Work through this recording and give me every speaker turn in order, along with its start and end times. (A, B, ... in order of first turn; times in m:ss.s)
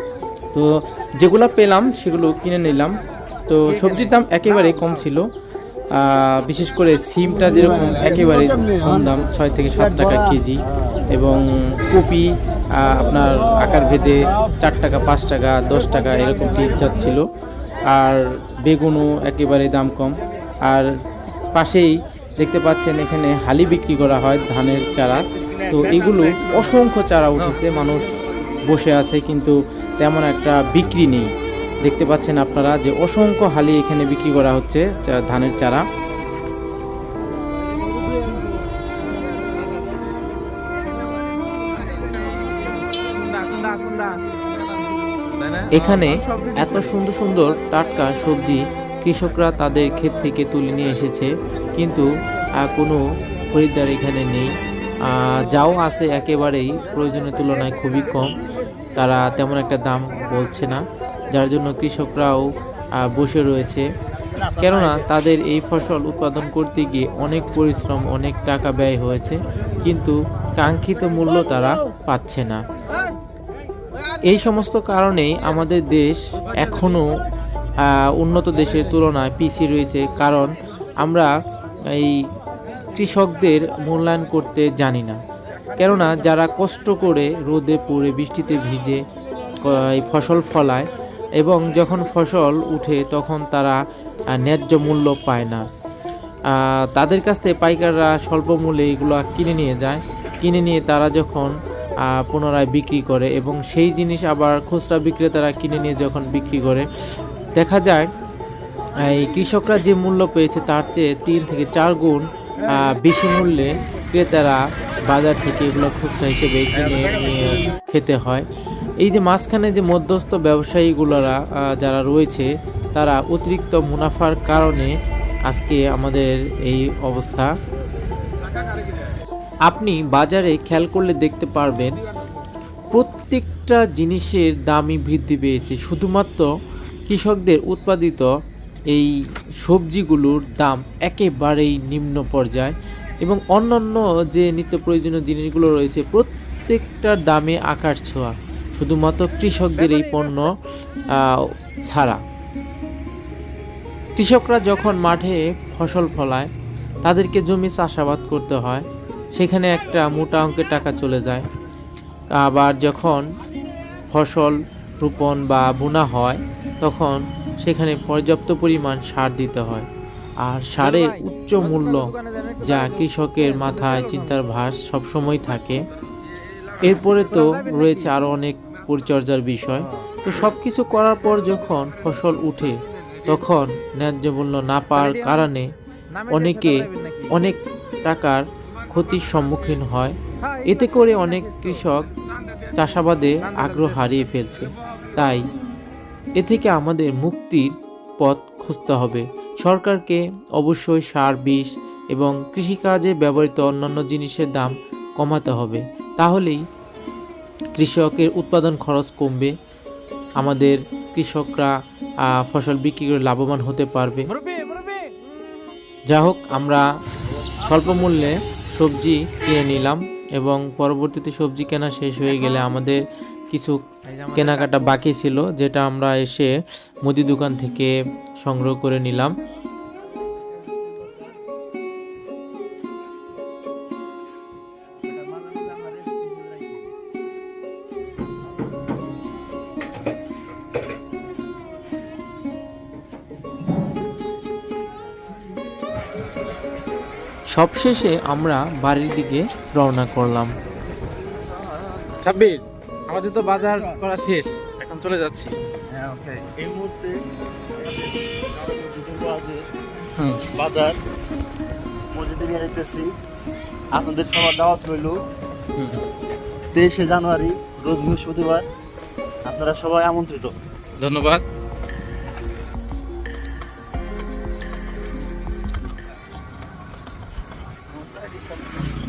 0:00.5-0:03.0 A
0:03.5-0:05.2 A
0:05.9-0:17.3 A
0:17.9-0:20.9 A
0:21.6-0:28.1 A
0:25.3-0:26.8 B
0:28.7-0:31.3 A
0:31.8-0:35.8 A
0:43.0-0:44.2 C
0:45.3-0:46.8 C
0:45.7-0:53.0 A
0:53.5-0:54.5 A
0:55.0-0:58.4 A
0:59.0-1:00.8 A
1:01.3-1:03.8 A
1:04.2-1:05.0 B
1:04.4-1:12.6 A
1:14.2-1:17.0 A
1:17.8-1:20.5 A
1:21.0-1:21.3 A
1:21.9-1:22.2 A
1:22.9-1:25.2 A
1:25.8-1:29.0 A
1:29.6-1:33.8 A
1:34.4-1:35.6 A
1:36.5-1:41.5 A
1:42.0-1:46.9 A
1:47.6-1:48.1 A
1:49.0-1:58.4 A
1:59.0-2:05.0 A
2:05.5-2:07.5 A
2:09.7-2:12.0 A
2:12.9-2:16.5 A
2:17.1-2:18.3 A
2:19.6-2:30.6 A
2:31.1-2:32.2 A
2:34.2-2:36.5 A
2:37.0-2:41.4 A
2:42.3-2:43.2 A
2:44.1-2:49.9 A
2:50.4-2:55.8 A
2:50.8-2:51.1 C
2:51.7-2:54.1 C
2:56.8-3:05.7 A
3:06.2-3:07.3 C
3:06.3-3:12.1 A
3:12.7-3:15.4 A
3:13.5-3:13.9 C
3:16.4-3:26.6 A
3:27.8-3:29.5 A
3:30.4-3:31.7 A
3:32.4-3:34.3 A
3:34.4-3:35.1 C
3:36.1-3:36.8 A
3:37.6-3:43.8 A
3:44.1-3:44.9 C
3:44.3-3:46.5 A
3:47.0-3:49.3 A
3:50.2-3:51.4 B
3:55.0-3:56.9 B
4:07.5-4:10.5 A
4:12.2-4:15.2 C
4:14.2-4:15.5 A
4:15.9-4:17.2 B
4:17.8-4:19.6 B
4:20.5-4:21.0 B
4:22.1-4:23.1 B
4:23.9-4:25.2 B
4:26.7-4:28.6 B
4:29.4-4:30.5 B
4:31.0-4:31.4 A
4:37.9-4:38.6 B